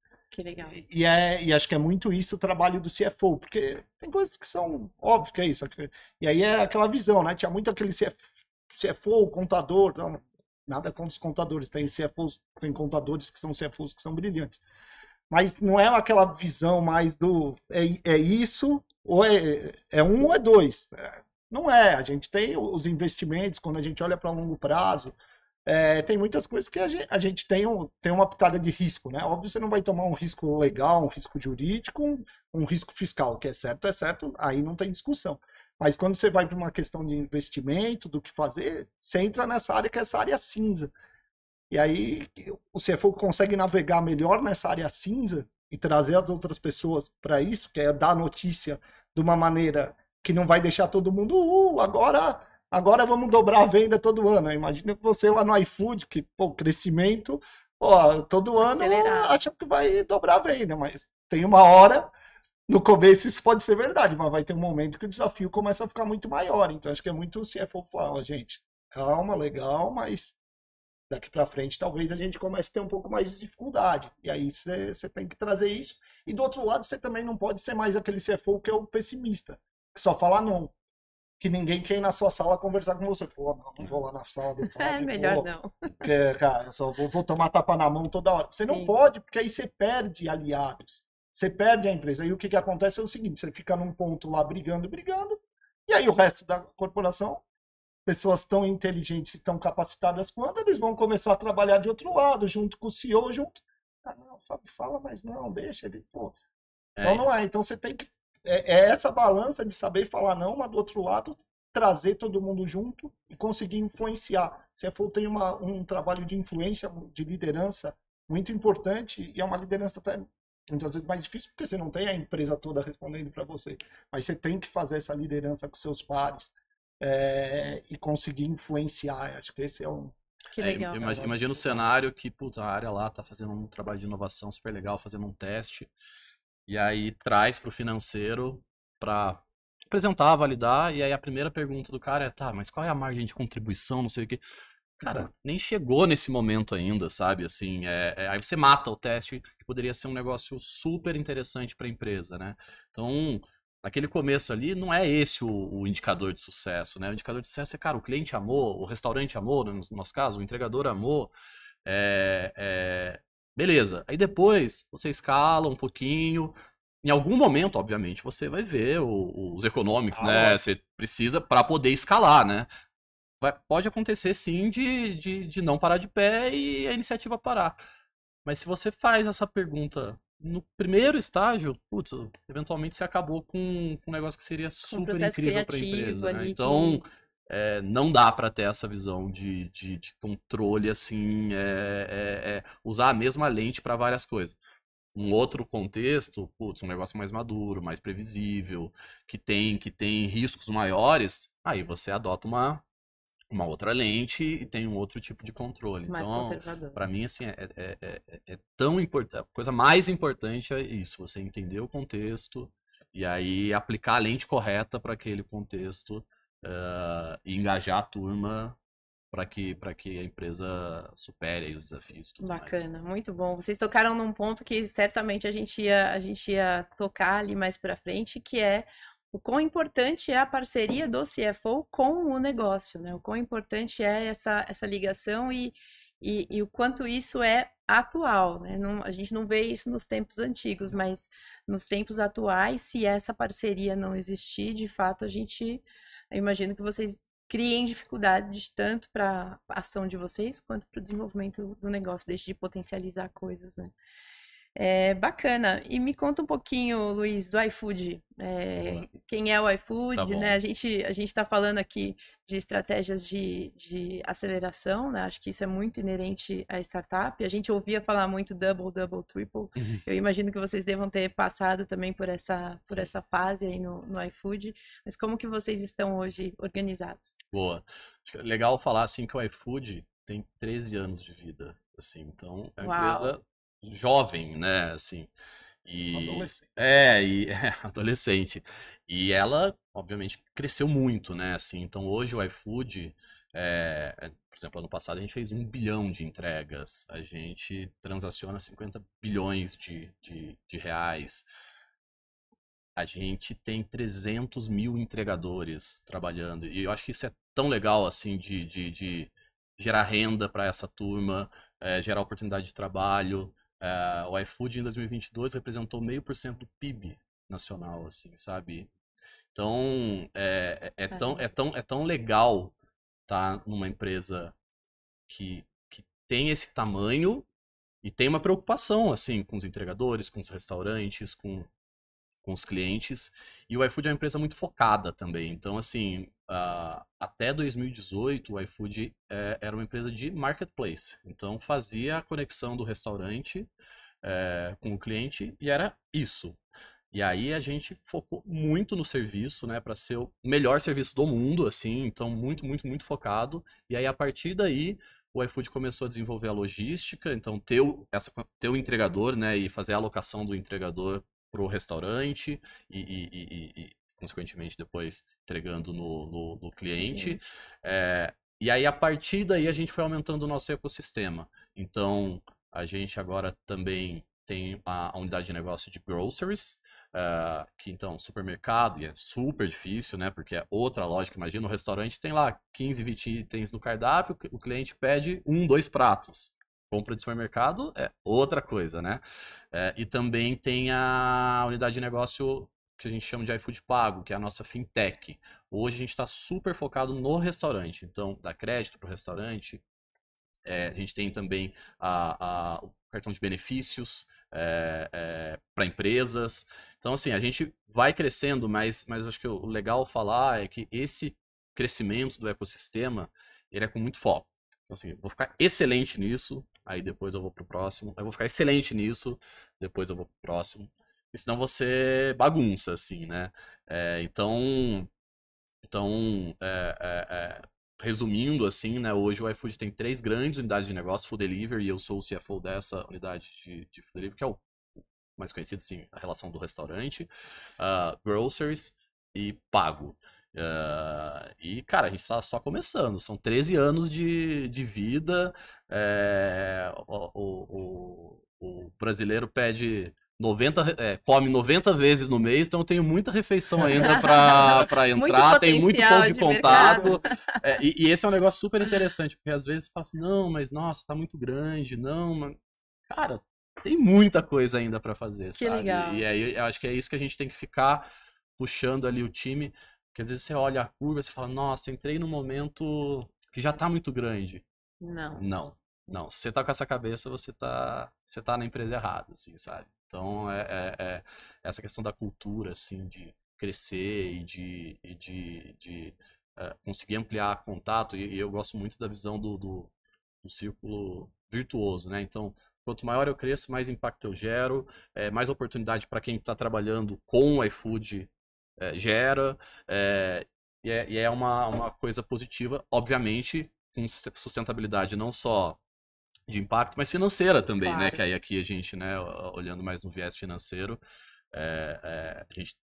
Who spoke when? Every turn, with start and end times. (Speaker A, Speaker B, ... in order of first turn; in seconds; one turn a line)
Speaker A: 0.3-0.8
Speaker B: 0.7-14.6
Speaker B: 15.3-40.9
Speaker B: 41.7-62.1
Speaker A: 58.6-59.4
Speaker B: 62.7-70.4
Speaker B: 71.1-80.7
Speaker B: 81.4-85.5
Speaker A: 84.6-86.0
Speaker B: 86.0-97.4
Speaker A: 88.6-88.9
Speaker B: 98.1-106.3
Speaker C: 107.0-107.2
Speaker B: 107.0-130.2
Speaker A: 130.5-131.4
Speaker C: 130.6-135.9
Speaker C: 136.7-144.4
Speaker C: 145.0-161.3
Speaker C: 161.8-172.7
Speaker B: 170.1-170.6
Speaker C: 173.4-177.8
Speaker C: 178.4-194.6
Speaker A: 184.9-187.0
Speaker C: 195.2-202.8
Speaker C: 203.5-218.8
Speaker A: 206.1-207.0
Speaker C: 219.3-222.8
Speaker A: 222.4-253.9
Speaker A: 254.8-277.3
Speaker C: 258.8-259.1
Speaker C: 260.1-260.6
Speaker C: 269.8-270.0
Speaker C: 277.5-285.3
Speaker A: 282.8-283.3
Speaker C: 285.8-301.4
Speaker B: 286.1-286.7
Speaker C: 302.9-318.9
Speaker C: 319.5-322.7
Speaker A: 321.1-321.4
Speaker C: 323.3-324.6
Speaker C: 325.3-327.4
Speaker C: 328.0-331.7
Speaker C: 332.4-343.7
Speaker C: 344.2-346.6
Speaker C: 347.1-389.2
Speaker C: 389.7-399.8
Speaker C: 400.6-425.1
Speaker C: 425.8-434.6
Speaker C: 435.4-437.3
Speaker C: 437.8-462.6
Speaker A: 454.0-457.4
Speaker B: 456.6-457.2
Speaker C: 463.1-468.1
Speaker A: 465.6-466.2
Speaker C: 468.6-474.6
Speaker A: 475.0-475.4
Speaker C: 475.4-489.9
Speaker C: 490.4-505.8
Speaker C: 506.5-511.0
Speaker A: 507.8-508.2
Speaker C: 511.5-512.8